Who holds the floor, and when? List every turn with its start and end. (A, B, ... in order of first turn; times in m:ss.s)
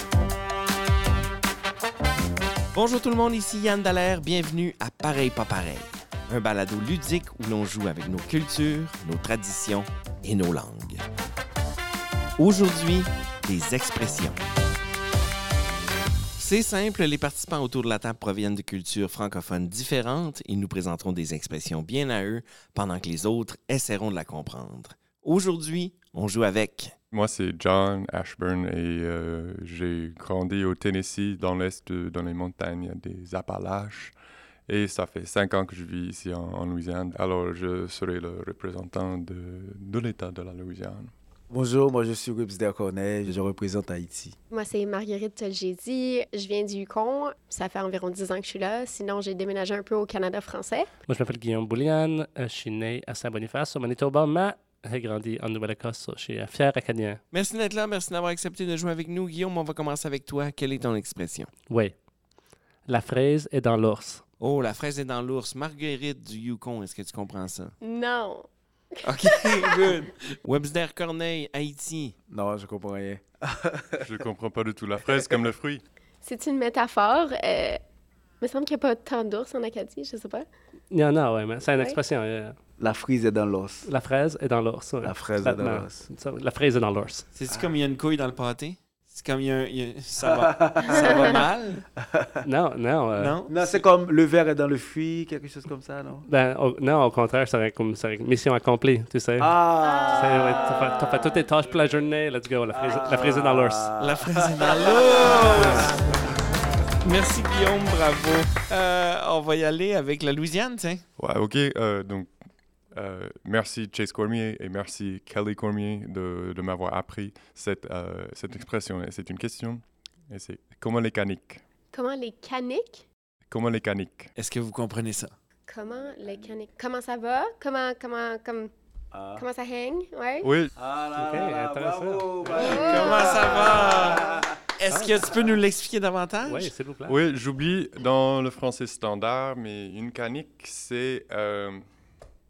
0:02.7-0:11.0 A
0:12.4-0:14.4 A
0:16.4-0:26.9 A
0:27.1-0:34.1 B
0:34.7-0:41.1 B
0:41.5-0:44.4 C
0:44.5-0:50.9 D
0:51.1-0:57.2 E
0:57.3-1:01.5 A
1:01.7-1:01.9 E
1:02.8-1:04.2 E
1:04.4-1:07.8 A
1:07.8-1:10.0 D
1:09.0-1:12.2 A
1:12.3-1:14.1 C
1:14.0-1:15.8 B
1:16.2-1:17.8 D
1:18.4-1:20.5 D
1:20.9-1:22.6 E
1:22.8-1:23.9 C
1:23.8-1:27.2 E
1:25.0-1:26.0 C
1:27.3-1:31.8 A
1:30.2-1:31.1 C
1:32.1-1:32.4 C
1:32.4-1:33.4 E
1:33.1-1:33.8 A
1:33.5-1:36.2 C
1:36.2-1:44.0 E
1:39.4-1:41.4 C
1:39.8-1:40.8 D
1:42.7-1:45.8 C
1:44.0-1:46.0 A
1:47.0-1:51.0 A
1:51.2-1:52.3 B
1:52.9-2:01.6 B
2:01.9-2:03.0 D
2:03.5-2:04.3 B
2:04.4-2:05.3 A
2:05.7-2:08.7 D
2:05.8-2:06.5 C
2:09.1-2:09.5 C
2:09.4-2:10.5 D
2:10.4-2:10.7 B
2:10.7-2:14.5 C
2:11.1-2:13.0 E
2:12.5-2:16.7 A
2:12.6-2:14.3 D
2:14.8-2:15.3 E
2:16.4-2:17.2 E
2:17.0-2:21.8 B